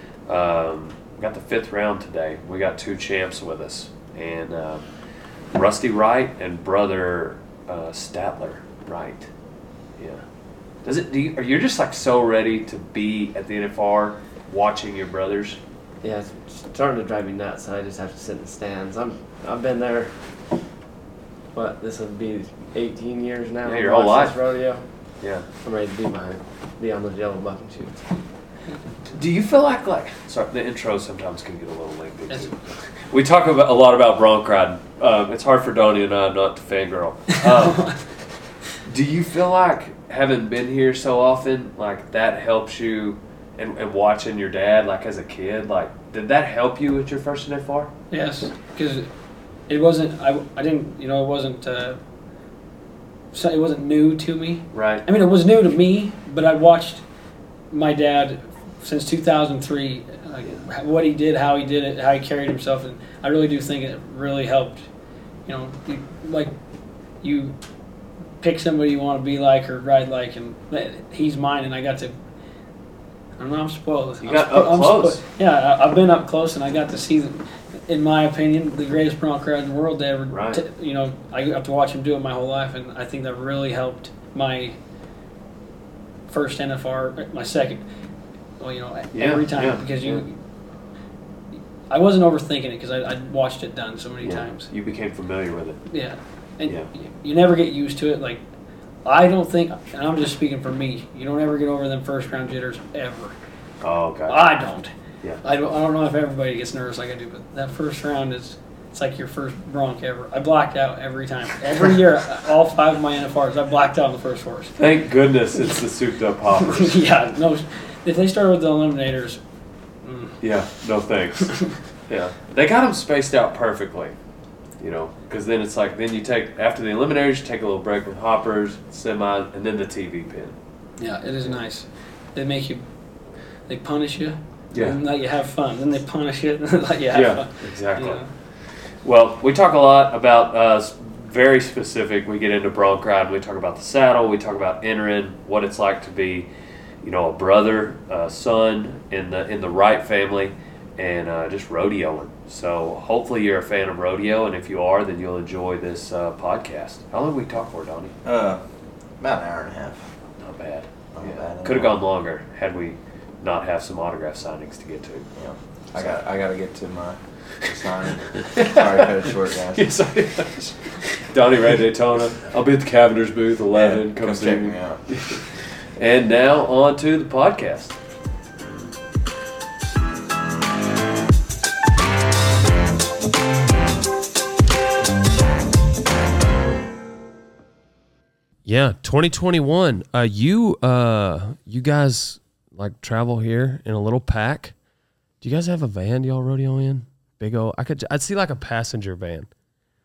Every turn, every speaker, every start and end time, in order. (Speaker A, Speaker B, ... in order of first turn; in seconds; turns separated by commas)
Speaker A: 0.3-4.9, Speaker A: 5.5-9.3, Speaker A: 10.8-15.6, Speaker B: 16.0-20.1, Speaker B: 21.5-24.9, Speaker A: 23.6-24.4, Speaker A: 25.2-25.5, Speaker B: 25.6-28.1, Speaker A: 29.1-37.9, Speaker C: 37.3-38.0, Speaker A: 38.9-47.9, Speaker C: 48.1-49.1, Speaker C: 49.7-52.0, Speaker C: 53.3-57.0, Speaker A: 54.7-55.0, Speaker C: 57.7-64.9, Speaker C: 65.5-66.5, Speaker C: 67.2-67.6, Speaker C: 68.4-72.2, Speaker C: 73.4-84.8, Speaker A: 74.2-75.2, Speaker A: 80.3-80.6, Speaker C: 86.3-87.8, Speaker C: 88.6-90.4, Speaker A: 89.1-90.2, Speaker C: 91.9-94.7, Speaker A: 94.2-95.8, Speaker C: 95.9-98.4, Speaker C: 99.0-103.3, Speaker A: 103.8-104.5, Speaker C: 104.3-104.9, Speaker C: 105.4-114.8, Speaker A: 114.8-117.0, Speaker C: 116.6-119.4, Speaker C: 120.0-120.4, Speaker A: 120.4-124.2, Speaker A: 124.8-130.6, Speaker C: 131.0-132.8, Speaker C: 133.7-138.3, Speaker A: 134.7-135.0, Speaker A: 137.1-138.2, Speaker A: 139.0-146.5, Speaker A: 147.0-158.2, Speaker D: 158.2-158.6, Speaker D: 159.2-160.1, Speaker A: 160.4-165.3, Speaker D: 161.1-162.0, Speaker D: 165.3-169.9, Speaker A: 166.0-166.2, Speaker A: 168.4-178.0, Speaker D: 173.7-175.0, Speaker A: 188.7-194.7, Speaker A: 195.4-199.5